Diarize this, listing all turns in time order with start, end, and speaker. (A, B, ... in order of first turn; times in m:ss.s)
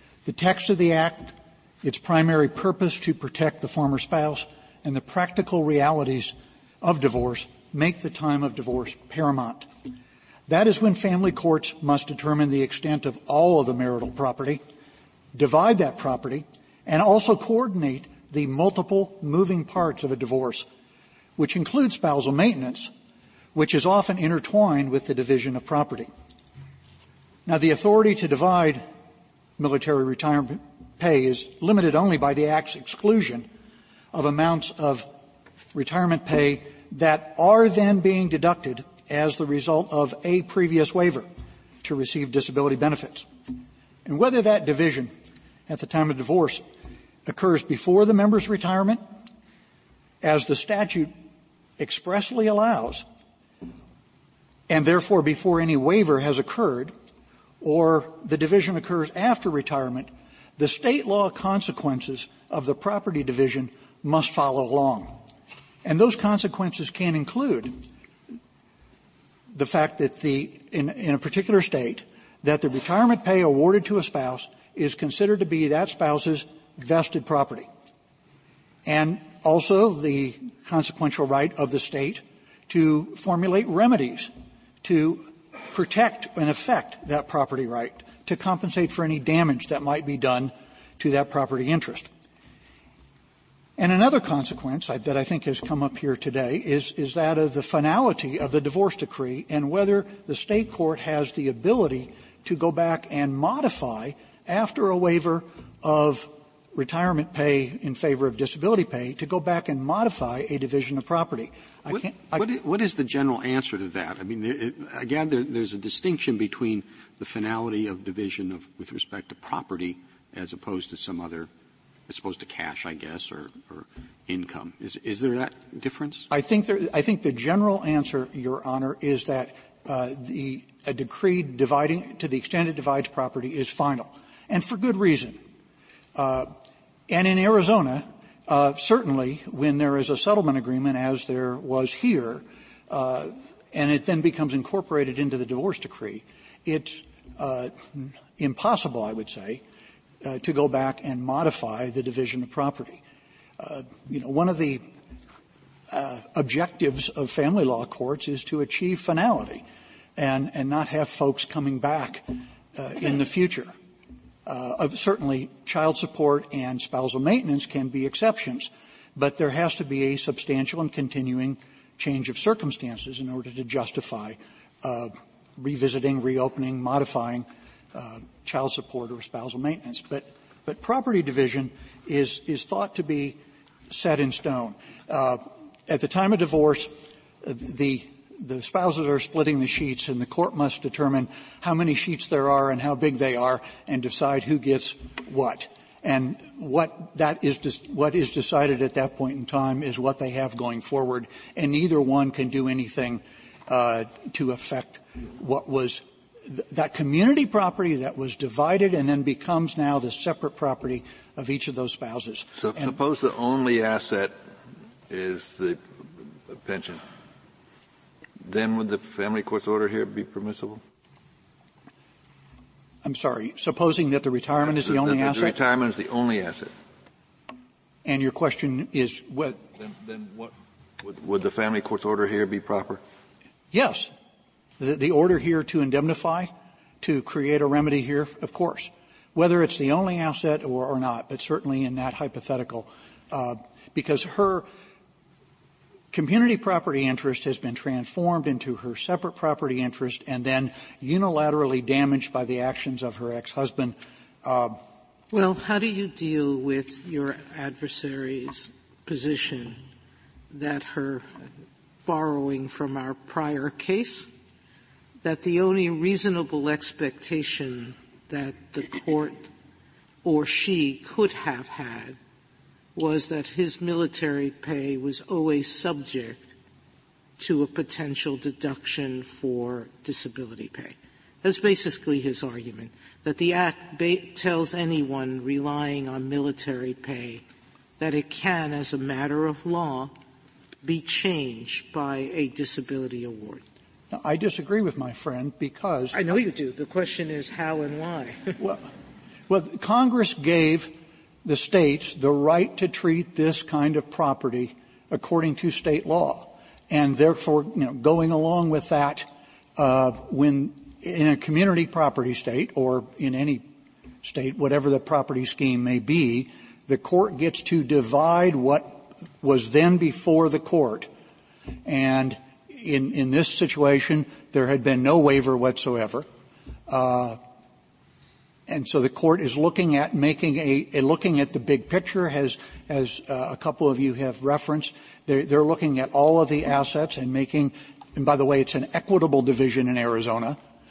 0:00.2-0:09.7 A
0:10.5-0:14.6 A
0:15.3-0:20.6 A
0:21.4-0:22.9 A
0:23.5-0:26.1 A
0:27.4-0:28.9 A
0:29.6-0:33.5 A
0:34.1-0:35.1 A
0:35.7-0:41.3 A
0:41.8-0:43.3 A
0:44.0-0:45.1 A
0:45.7-0:46.6 A
0:47.2-0:49.0 A
0:50.2-0:51.1 A
0:51.8-0:53.0 A
0:54.7-0:56.9 A
0:57.6-1:05.2 A
1:05.8-1:07.8 A
1:09.5-1:17.7 A
1:18.8-1:24.3 A
1:24.8-1:32.1 A
1:33.8-1:52.4 A
1:51.9-2:01.5 B
2:02.1-2:06.3 B
2:06.3-2:15.4 A
2:16.1-2:16.5 A
2:17.1-2:29.6 A
2:30.2-2:33.0 A
2:33.6-2:34.8 A
2:35.9-2:39.6 A
2:40.2-2:43.7 A
2:44.4-3:03.4 A
3:03.9-3:33.0 A
3:32.6-3:34.4 C
3:35.1-3:35.8 C
3:36.5-3:37.0 C
3:38.4-3:40.8 C
3:43.0-3:45.6 A
3:44.6-3:46.7 C
3:48.0-3:49.7 A
3:49.8-3:53.0 C
3:53.7-3:54.1 A
3:54.8-4:04.7 A
4:06.1-4:14.8 A
4:15.3-4:19.8 D
4:20.5-4:21.4 D
4:22.0-4:24.3 D
4:25.2-4:29.5 D
4:30.2-4:32.2 D
4:32.9-4:36.5 D
4:37.4-4:47.4 D
4:48.0-4:50.1 D
4:50.8-4:53.6 D
4:54.1-4:56.2 A
4:56.1-4:58.5 D
4:59.5-5:13.7 A
5:14.2-5:21.1 A
5:21.8-5:26.3 A
5:26.9-5:27.4 A
5:28.7-5:40.6 A